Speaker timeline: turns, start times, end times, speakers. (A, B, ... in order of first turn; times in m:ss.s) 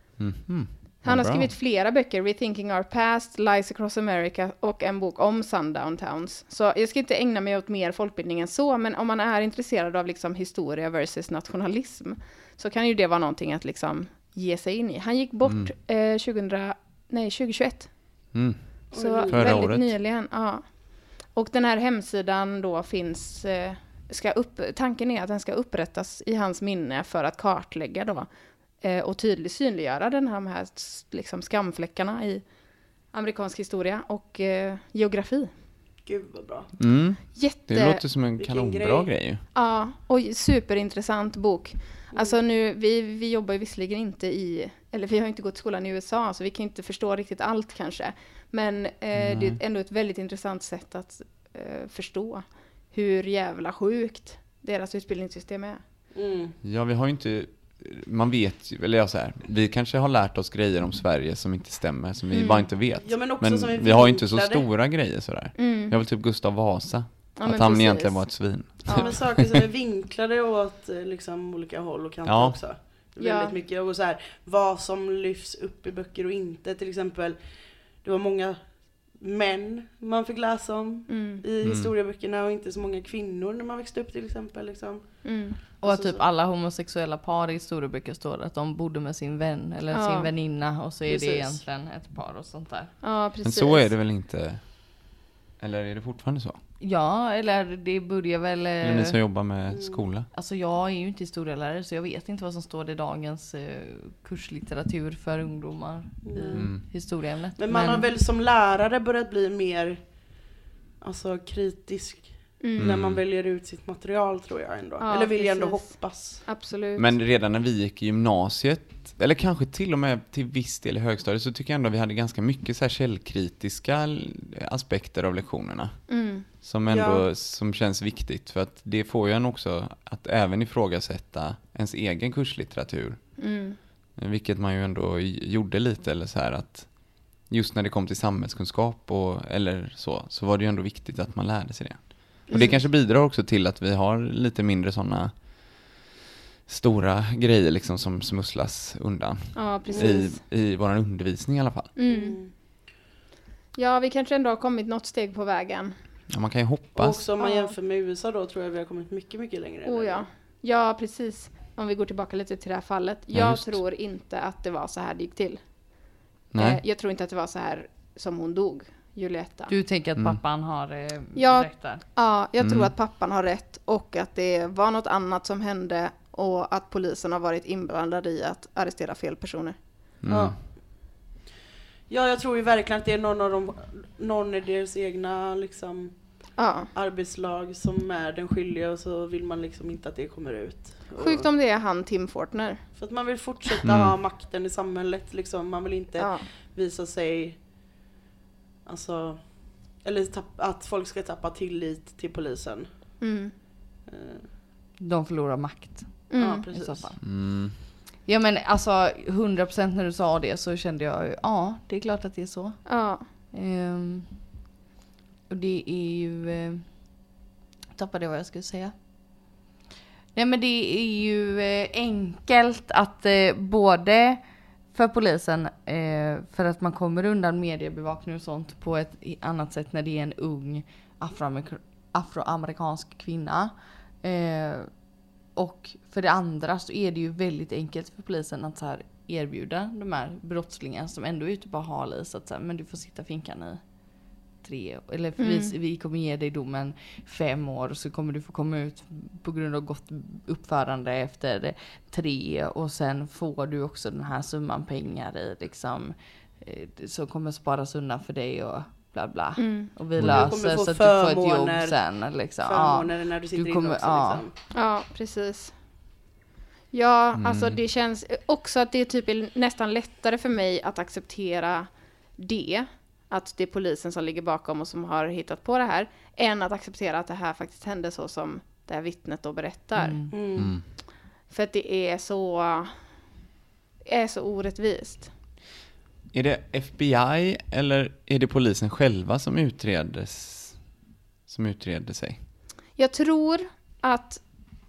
0:00.2-0:01.5 A
0:01.0-0:18.3 B
0:15.4-0:15.7 A
0:18.3-0:19.9 A
0:18.9-0:19.6 C
0:18.9-0:32.4 B
0:33.1-0:35.5 B
0:36.0-0:36.7 C
0:36.8-0:39.4 A
0:37.3-0:38.0 B
0:38.4-0:39.1 C
0:39.5-0:55.8 B
0:42.1-0:42.4 C
0:49.1-0:49.6 A
0:56.1-0:56.6 C
0:56.6-1:09.6 A
1:02.3-1:02.6 B
1:02.8-1:04.7 C
1:05.6-1:05.9 B
1:07.4-1:09.1 B
1:08.8-1:26.2 C
1:12.2-1:12.6 A
1:13.2-1:13.5 B
1:21.1-1:21.4 B
1:21.6-1:21.9 A
1:25.2-1:25.6 B
1:25.8-1:33.0 D
1:29.9-1:30.3 B
1:31.0-1:31.6 C
1:33.0-1:33.9 B
1:33.4-1:36.6 A
1:36.8-1:39.2 D
1:38.8-1:40.3 A
1:39.7-1:40.1 C
1:40.3-1:48.1 D
1:46.2-1:50.3 C
1:46.6-1:46.8 A
1:51.0-1:56.5 C
1:52.6-1:52.9 B
1:52.8-1:53.2 A
1:55.0-1:57.1 B
1:57.0-2:13.5 A
2:06.1-2:06.4 B
2:06.9-2:07.3 C
2:13.4-2:13.8 B
2:14.2-2:26.0 A
2:22.5-2:22.8 C
2:26.6-2:32.0 A
2:29.5-2:30.4 B
2:29.8-2:30.3 C
2:32.0-2:32.4 B
2:32.1-2:32.5 C
2:33.7-2:35.9 B
2:36.3-2:37.2 A
2:36.9-2:40.2 C
2:37.4-2:37.7 B
2:39.8-2:49.7 B
2:43.3-2:43.8 A
2:46.5-2:46.8 A
2:49.7-2:52.0 D
2:51.4-2:59.8 B
2:52.6-2:52.9 A
3:00.2-3:00.7 A
3:00.3-3:00.8 C
3:02.1-3:11.5 C
3:06.6-3:06.9 B
3:11.1-3:12.9 B
3:12.9-3:17.6 C
3:13.8-3:14.2 A
3:16.2-3:16.4 B
3:18.8-3:23.2 C
3:23.2-3:23.5 B
3:24.0-3:24.5 C
3:25.0-3:34.5 D
3:26.3-3:26.6 B
3:26.4-3:27.1 C
3:27.2-3:27.8 A
3:32.8-3:33.2 B
3:35.5-3:37.3 D
3:37.9-3:39.6 D
3:40.3-4:24.4 D
4:05.4-4:05.7 B
4:19.6-4:19.9 B
4:20.2-4:20.6 A
4:20.2-4:24.6 C
4:24.7-4:25.8 B
4:26.9-4:40.8 B
4:27.4-4:27.8 A
4:40.0-4:40.3 D
4:40.3-4:40.7 C
4:40.6-4:40.8 A
4:41.5-4:43.2 B
4:44.0-4:45.3 B
4:46.3-4:52.4 A
4:53.0-4:54.4 B